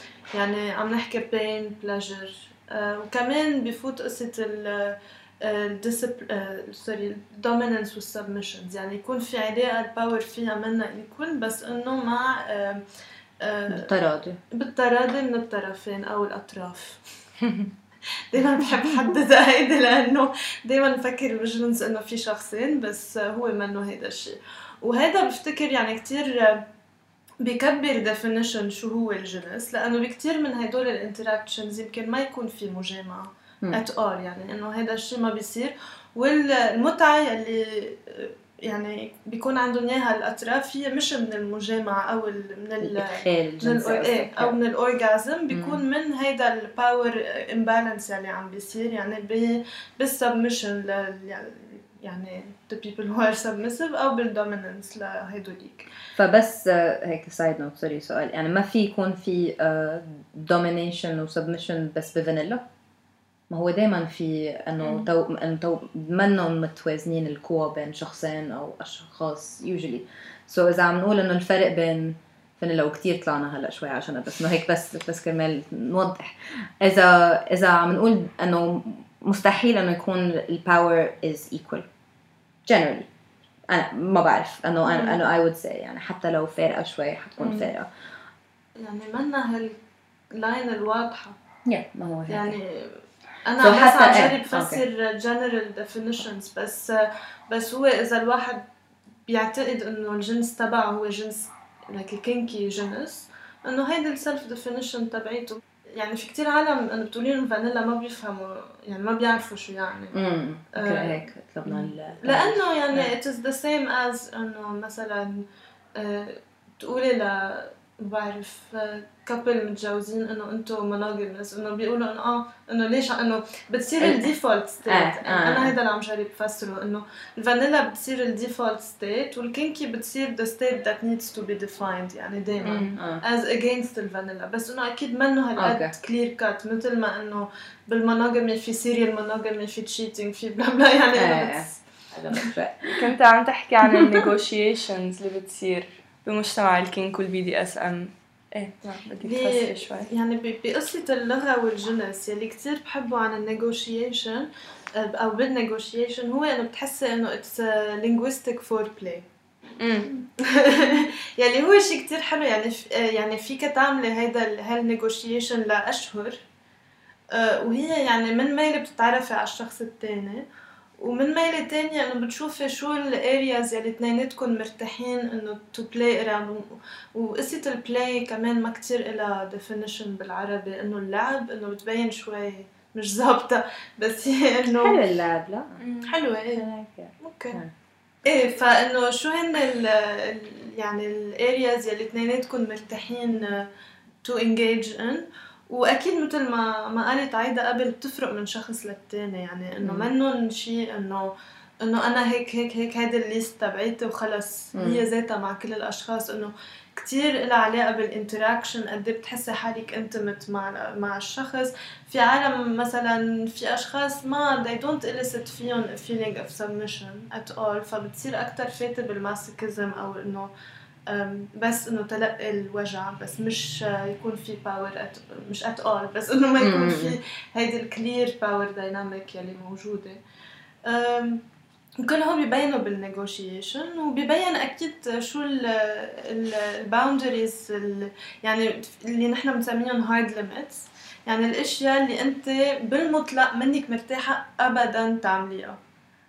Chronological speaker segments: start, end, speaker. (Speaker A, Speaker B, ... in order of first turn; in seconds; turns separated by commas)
Speaker A: 0.3-12.8, Speaker A: 13.4-13.9, Speaker B: 13.7-14.4, Speaker A: 14.5-17.0, Speaker A: 18.3-26.6, Speaker A: 27.4-55.9, Speaker B: 42.8-44.6, Speaker B: 45.5-45.8, Speaker B: 56.1-62.6, Speaker B: 63.5-81.9, Speaker B: 82.7-83.1, Speaker B: 83.7-87.9, Speaker C: 87.4-87.7, Speaker A: 88.8-89.8, Speaker A: 90.3-91.4, Speaker B: 91.7-92.6, Speaker A: 92.3-98.6, Speaker B: 93.6-94.8, Speaker A: 99.3-110.1, Speaker B: 110.1-113.1, Speaker A: 110.8-115.4, Speaker A: 116.0-141.8, Speaker B: 124.0-124.3, Speaker B: 124.9-125.8, Speaker B: 132.6-133.2, Speaker C: 132.6-132.9, Speaker B: 135.6-135.9, Speaker B: 141.2-143.1, Speaker C: 143.0-150.1, Speaker A: 149.2-159.3, Speaker C: 159.8-160.1, Speaker A: 160.5-166.4, Speaker A: 167.3-170.4, Speaker A: 171.0-185.0, Speaker B: 184.8-185.8, Speaker C: 185.8-186.1, Speaker A: 186.1-186.6, Speaker B: 186.5-187.7, Speaker A: 187.2-187.6, Speaker A: 188.3-193.7, Speaker A: 194.2-220.5, Speaker B: 199.8-200.1, Speaker B: 204.7-205.0, Speaker A: 221.1-230.2, Speaker B: 226.6-227.2, Speaker A: 230.9-231.4, Speaker A: 232.0-245.8